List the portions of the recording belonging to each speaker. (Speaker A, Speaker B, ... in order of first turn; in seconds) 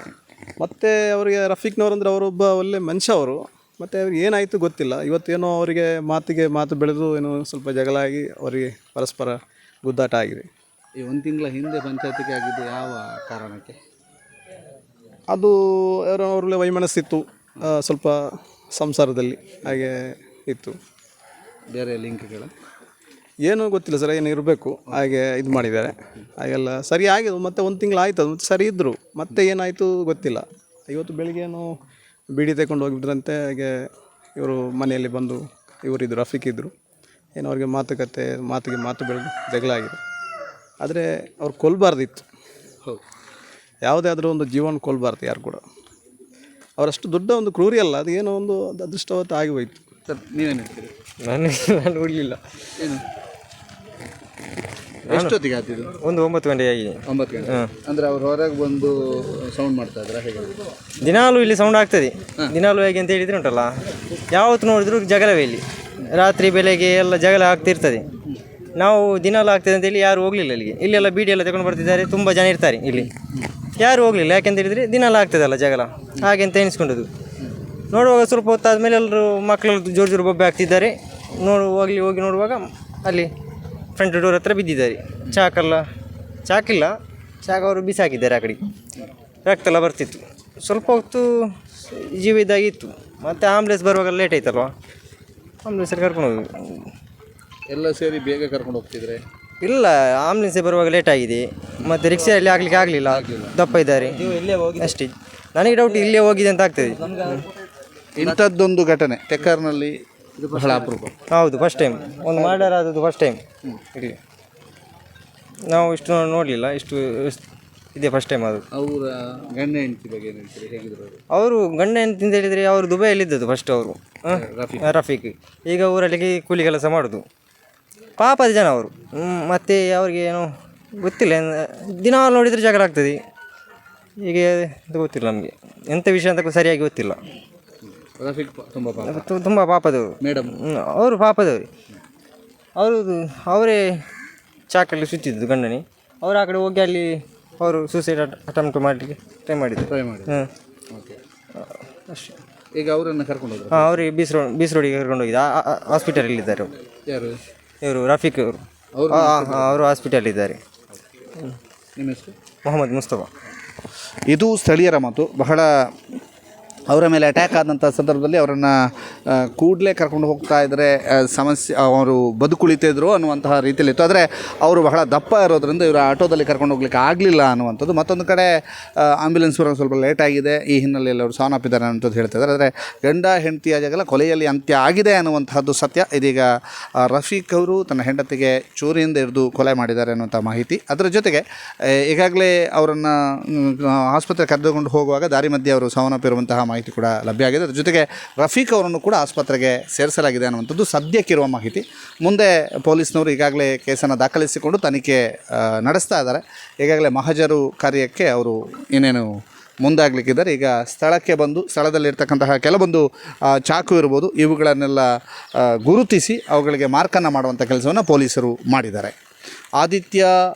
Speaker A: 0.6-10.5, 15.3-18.2, 18.7-20.8, 23.4-31.7, 32.3-33.9, 34.4-36.7, 37.4-40.0, 40.8-42.2, 43.8-45.6, 46.8-49.9
Speaker B: 11.0-13.8, 21.7-22.5, 50.1-50.9, 52.8-53.0, 55.0-56.0, 57.1-60.6, 97.7-99.2, 103.1-103.7, 108.2-111.1, 118.7-121.2, 124.3-125.0, 138.0-139.3, 140.2-140.6, 149.9-150.4, 150.9-151.2, 152.7-154.0, 157.1-157.4, 158.9-159.8, 162.0-162.3, 164.3-165.7, 166.9-186.5, 187.0-209.3, 209.8-219.1, 219.8-220.3
Speaker C: 51.2-52.4, 55.1-55.4, 56.0-57.7, 61.0-63.7, 64.3-68.1, 68.8-73.1, 73.8-77.1, 77.9-83.3, 84.0-85.8, 86.5-88.6, 89.5-91.3, 91.8-94.7, 95.7-96.9, 99.6-107.4, 111.3-113.4, 115.7-117.4, 118.0-118.7, 121.3-127.2, 128.2-133.2, 134.2-137.2, 139.1-141.7, 142.8-144.0, 144.7-150.5, 151.6-152.4, 153.7-156.7, 157.8-160.6, 162.6-163.3